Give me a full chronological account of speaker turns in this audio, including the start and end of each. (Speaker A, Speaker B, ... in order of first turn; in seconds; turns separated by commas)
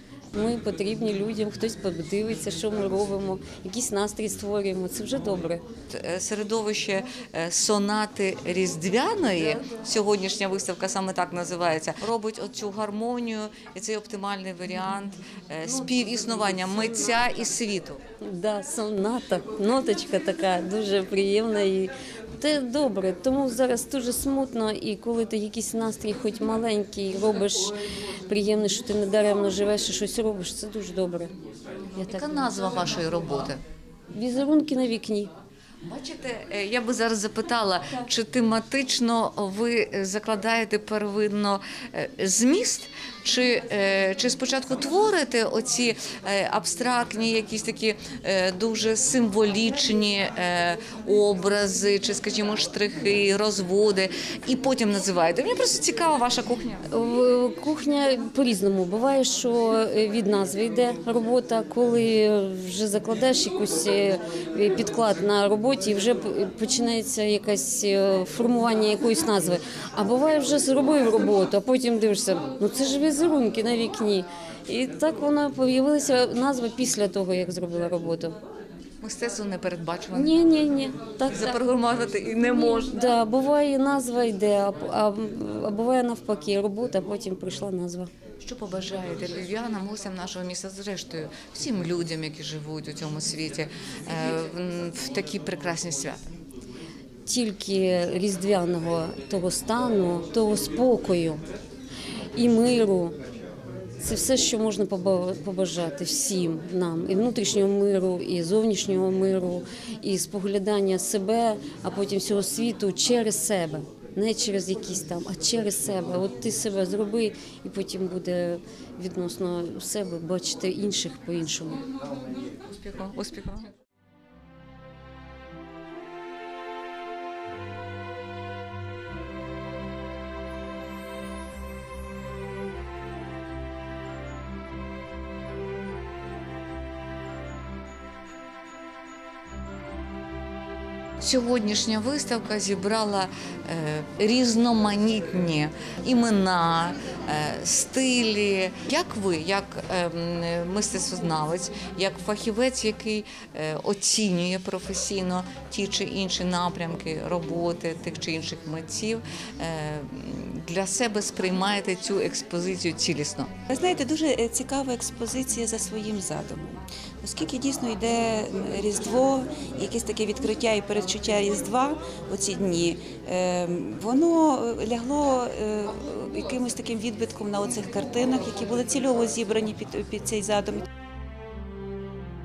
Speaker A: 0.3-5.6, Speaker B: 5.9-18.0, Speaker A: 15.7-17.1, Speaker A: 18.2-31.3, Speaker A: 32.0-32.8, Speaker B: 32.0-33.6, Speaker A: 34.1-35.3, Speaker B: 35.8-56.8, Speaker A: 56.9-78.4, Speaker B: 79.0-80.4, Speaker A: 80.1-81.6, Speaker B: 81.2-83.0, Speaker A: 82.5-88.1, Speaker B: 88.4-96.2, Speaker A: 97.2-101.4, Speaker A: 102.3-103.2, Speaker A: 104.0-121.8, Speaker B: 122.7-123.7, Speaker B: 141.2-163.5, Speaker C: 163.7-180.8